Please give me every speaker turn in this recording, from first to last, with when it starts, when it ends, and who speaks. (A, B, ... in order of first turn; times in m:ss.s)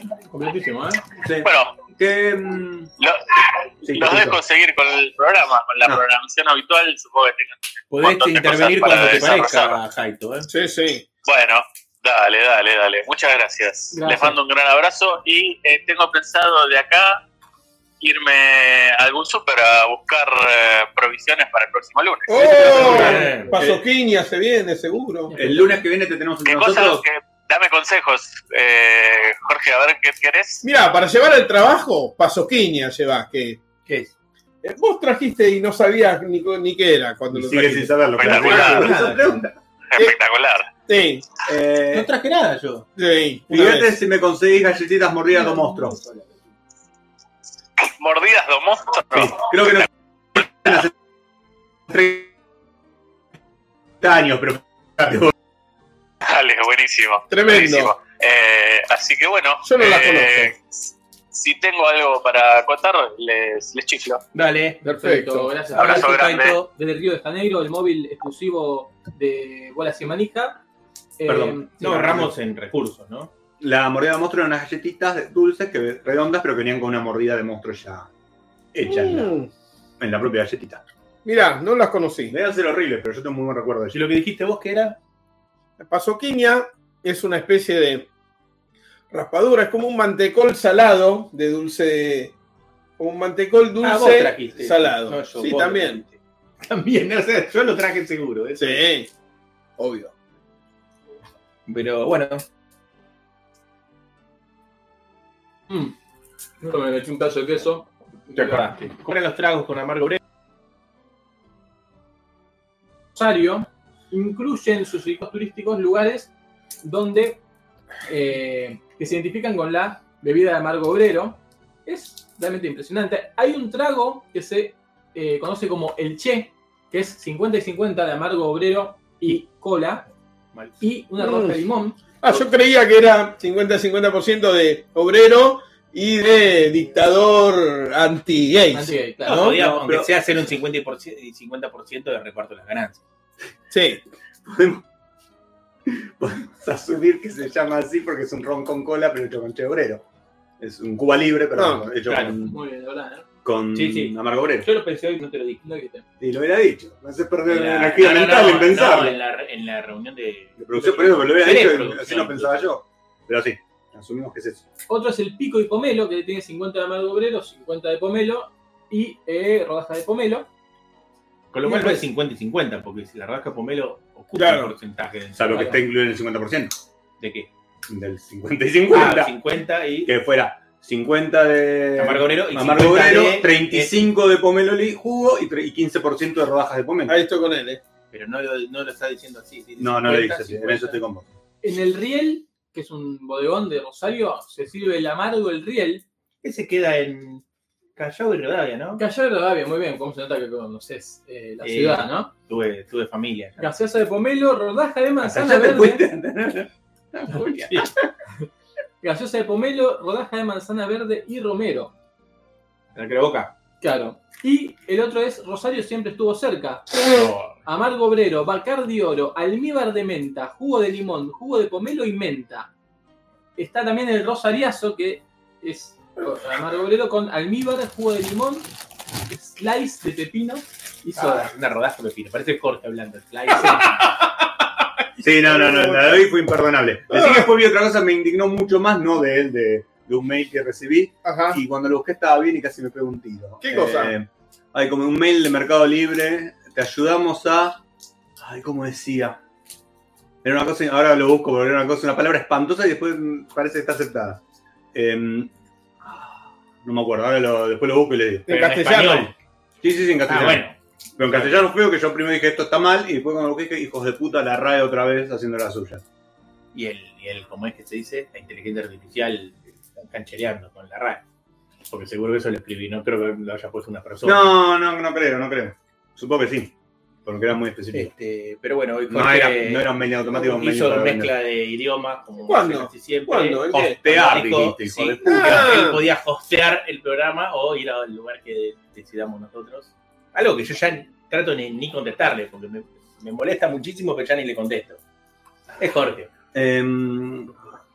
0:00.3-0:01.0 A
0:01.2-0:02.9 B
0:01.4-0:01.8 C
0:03.0-0:09.8 C
0:03.8-0:04.4 B
0:07.9-0:10.5 A
0:10.5-0:11.0 D
0:11.2-0:17.2 C
0:13.9-0:14.4 E
0:18.0-0:23.1 C
0:22.3-0:25.3 D
0:22.6-0:23.6 E
0:22.6-0:23.6 A
0:25.3-0:25.8 E
0:25.4-0:27.0 B
0:26.4-0:30.6 C
0:30.6-0:33.6 D
0:33.8-0:34.1 A
0:34.6-0:39.0 D
0:37.3-0:39.6 B
0:38.2-0:38.9 C
0:38.2-0:39.4 A
0:39.9-0:40.7 C
0:40.9-0:41.3 D
0:41.4-0:42.1 B
0:41.9-0:42.9 A
0:43.0-0:43.9 D
0:43.5-0:46.0 B
0:47.8-0:49.9 C
0:49.1-0:50.9 B
0:51.9-0:52.3 B
0:54.0-0:55.3 B
0:56.2-1:04.2 C
0:57.3-0:57.9 D
0:59.6-1:00.5 D
1:04.3-1:04.8 A
1:04.8-1:05.6 D
1:04.8-1:10.6 E
1:05.7-1:06.7 A
1:05.8-1:06.5 C
1:11.2-1:11.7 E
1:11.2-1:12.3 B
1:11.8-1:13.3 A
1:13.6-1:18.1 B
1:18.7-1:19.3 B
1:18.8-1:19.5 D
1:20.0-1:20.8 B
1:21.2-1:22.3 D
1:22.3-1:24.0 B
1:23.9-1:25.0 A
1:25.8-1:28.1 D
1:29.1-1:32.3 D
1:33.0-1:36.0 D
1:33.8-1:38.8 A
1:38.6-1:39.1 D
1:39.8-1:40.1 D
1:41.7-1:42.4 A
1:46.6-1:48.7 E
1:48.3-1:50.2 A
1:53.1-1:56.3 E
1:56.8-1:57.4 E
1:58.0-2:10.1 E
2:10.8-2:12.0 E
2:11.2-2:11.6 D
2:12.2-2:18.9 D
2:18.7-2:19.6 E
2:19.2-2:23.0 A
2:19.3-2:20.1 B
2:23.7-2:24.0 D
2:24.4-2:24.8 B
2:25.9-2:30.0 B
2:30.6-2:32.6 B
2:31.5-2:31.8 D
2:32.0-2:32.4 A
2:32.5-2:33.2 E
2:33.4-2:34.7 B
2:33.7-2:35.6 A
2:35.6-2:36.0 E
2:36.2-2:39.2 B
2:37.4-2:42.7 A
2:40.6-2:44.6 B
2:44.9-2:50.5 E
2:51.5-2:55.8 A
2:54.3-2:54.7 D
2:55.3-2:56.7 B
2:57.2-2:57.5 A
2:57.9-2:59.4 B
2:58.9-3:00.1 A
3:00.0-3:07.2 B
3:02.0-3:04.0 A
3:07.1-3:07.8 D
3:08.1-3:11.0 A
3:09.8-3:11.3 B
3:11.6-3:16.0 E
3:16.4-3:17.4 A
3:18.0-3:19.0 A
3:19.0-3:22.3 E
3:21.6-3:23.7 A
3:23.6-3:26.0 E
3:25.2-3:27.9 B
3:27.6-3:27.9 A
3:29.0-3:31.9 E
3:32.9-3:33.5 A
3:33.8-3:37.0 E
3:37.0-3:37.6 A
3:37.6-3:42.7 E
3:43.6-3:48.7 E
3:49.3-3:51.5 E
3:51.2-3:54.2 A
3:55.2-4:07.8 B
3:55.5-3:56.2 D
3:57.1-3:57.5 D
4:01.2-4:01.6 D
4:03.6-4:04.1 D
4:08.4-4:09.4 B
4:10.4-4:14.4 B
4:14.9-4:15.5 B
4:16.0-4:18.5 B
4:18.5-4:19.3 D
4:18.5-4:19.3 A
4:19.8-4:20.6 B
4:20.2-4:21.6 A
4:21.2-4:26.0 B
4:26.7-4:31.2 A
4:31.9-4:34.6 A
4:34.2-4:36.7 B
4:37.2-4:38.1 B
4:37.9-4:55.0 A
4:39.1-4:41.3 B
4:42.5-4:44.0 D
4:43.7-4:45.9 B
4:45.2-4:46.0 D
4:55.8-4:56.3 A
4:56.5-4:57.6 B